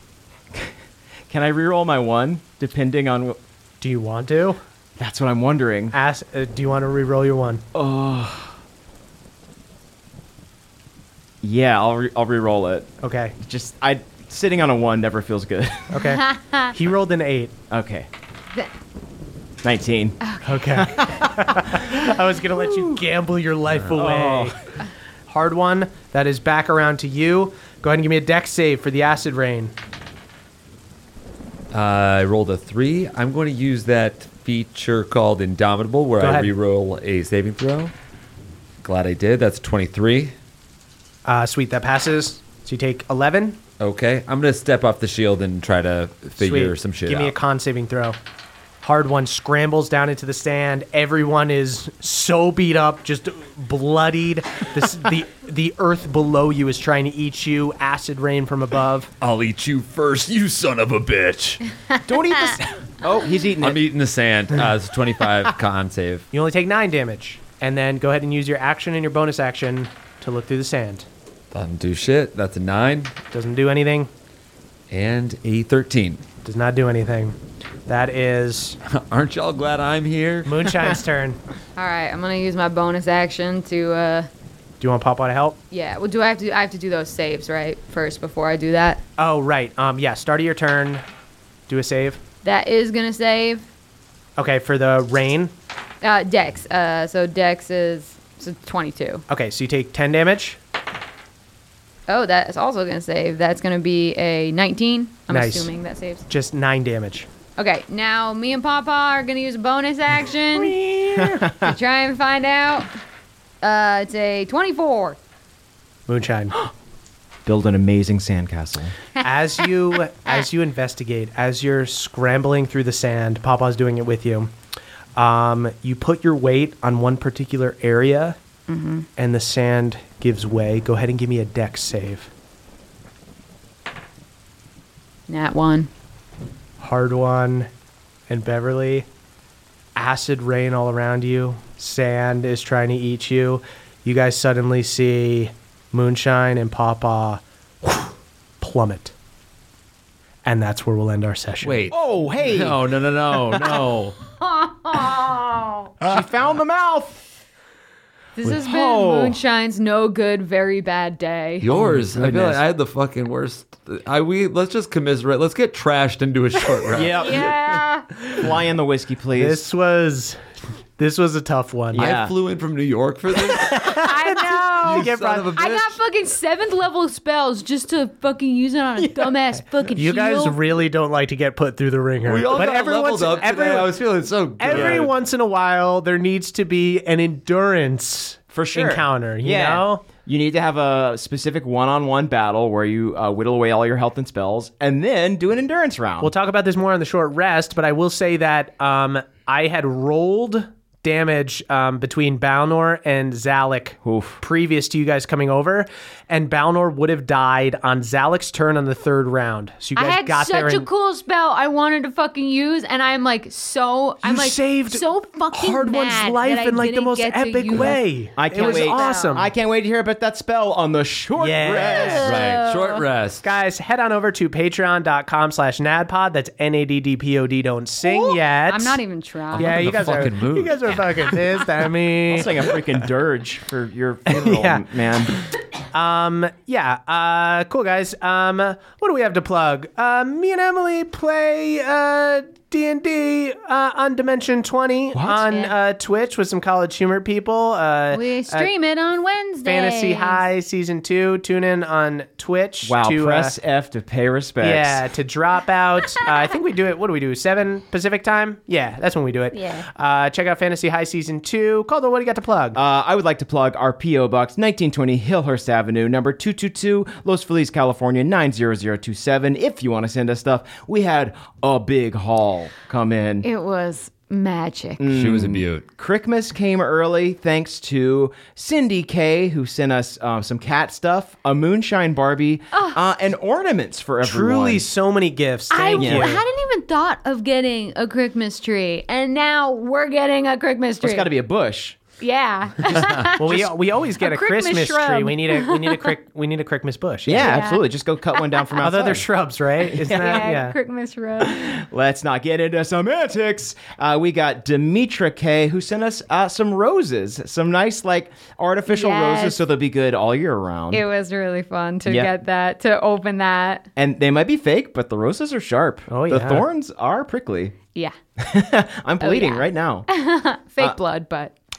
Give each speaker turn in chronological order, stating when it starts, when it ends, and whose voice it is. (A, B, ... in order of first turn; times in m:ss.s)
0:01.3-0:03.4 A
0:03.8-0:04.6 B
0:05.0-0:06.0 A
0:05.9-0:07.6 B
0:07.7-0:08.5 A
0:11.4-0:16.0 A
0:13.0-0:13.3 B
0:15.9-0:17.5 B
0:16.1-0:16.7 C
0:17.7-0:18.1 A
0:19.6-0:23.0 A
0:20.2-0:20.6 C
0:20.4-0:24.6 B
0:23.9-0:24.5 A
0:25.3-0:29.7 B
0:31.7-0:37.9 D
0:36.2-0:36.5 B
0:38.8-0:40.3 D
0:41.2-0:43.6 B
0:43.8-0:47.3 D
0:46.4-0:48.2 B
0:48.8-0:59.1 B
0:59.2-1:01.6 D
1:02.0-1:03.8 A
1:03.6-1:06.3 D
1:06.3-1:11.0 B
1:11.5-1:13.1 D
1:13.3-1:14.1 B
1:14.9-1:16.2 D
1:16.4-1:17.4 B
1:17.9-1:18.8 B
1:18.8-1:20.7 D
1:20.4-1:21.4 B
1:21.8-1:24.3 C
1:24.8-1:25.6 B
1:25.7-1:29.0 C
1:29.2-1:31.0 B
1:31.7-1:32.2 B
1:32.4-1:33.6 C
1:34.4-1:35.5 B
1:36.0-1:39.2 C
1:39.3-1:40.6 B
1:42.1-1:46.2 C
1:45.3-1:45.7 B
1:46.3-1:47.3 B
1:47.6-1:50.7 C
1:50.7-1:51.3 B
1:51.1-1:51.7 A
1:51.5-1:52.9 C
1:53.6-1:55.2 C
1:56.1-1:56.6 B
1:57.4-1:58.9 A
1:59.2-2:04.5 B
2:05.2-2:08.4 B
2:08.7-2:09.0 C
2:09.2-2:12.3 B
2:15.3-2:15.9 C
2:16.8-2:17.7 B
2:18.3-2:19.0 B
2:20.0-2:29.1 B
2:30.4-2:31.8 B
2:31.6-2:34.2 D
2:31.9-2:32.8 A
2:34.4-2:35.9 C
2:36.0-2:37.2 A
2:38.4-2:41.6 C
2:38.4-2:39.4 A
2:41.6-2:47.4 D
2:41.7-2:42.6 A
2:46.9-2:47.6 A
2:47.1-2:48.0 C
2:48.3-2:49.6 A
2:49.3-2:50.4 B
2:51.0-2:52.0 B
2:51.9-2:52.3 A
2:52.0-2:56.0 D
2:53.5-2:55.6 B
2:53.9-3:00.6 C
2:59.9-3:04.0 B
3:02.2-3:05.1 D
3:04.6-3:10.0 B
3:04.7-3:05.1 A
3:08.5-3:16.3 A
3:16.2-3:30.9 B
3:24.0-3:24.4 A
3:30.0-3:39.4 C
3:34.2-3:39.5 B
3:38.4-3:42.4 A
3:41.4-3:42.3 B
3:41.8-3:43.0 C
3:42.2-3:43.4 D
3:43.4-3:49.0 B
3:48.0-3:50.0 C
3:49.5-3:51.0 D
3:49.5-3:52.8 B
3:52.3-3:55.3 A
3:54.3-3:54.8 B
3:55.9-4:08.7 B
4:05.1-4:05.5 A
4:08.1-4:10.4 C
4:09.6-4:13.6 B
4:12.8-4:15.0 A
4:14.6-4:22.8 B
4:19.5-4:19.8 C
4:22.7-4:33.4 A
4:33.4-4:35.0 C
4:35.0-4:44.8 A
4:35.1-4:35.8 D
4:42.7-4:43.0 C
4:44.2-4:46.4 B
4:45.7-4:51.3 C
4:46.0-4:46.4 A
4:51.0-4:52.0 A
4:52.2-4:56.1 C
4:53.4-4:57.4 B
4:57.2-4:59.2 A
4:57.3-4:57.8 C
4:58.8-5:00.8 B
5:00.0-5:01.6 C
5:01.4-5:11.0 A
5:08.9-5:09.6 C
5:10.9-5:13.9 C
5:12.0-5:12.3 A
5:14.0-5:17.8 A
5:16.1-5:16.6 B
5:18.4-5:20.1 A
5:19.2-5:21.5 C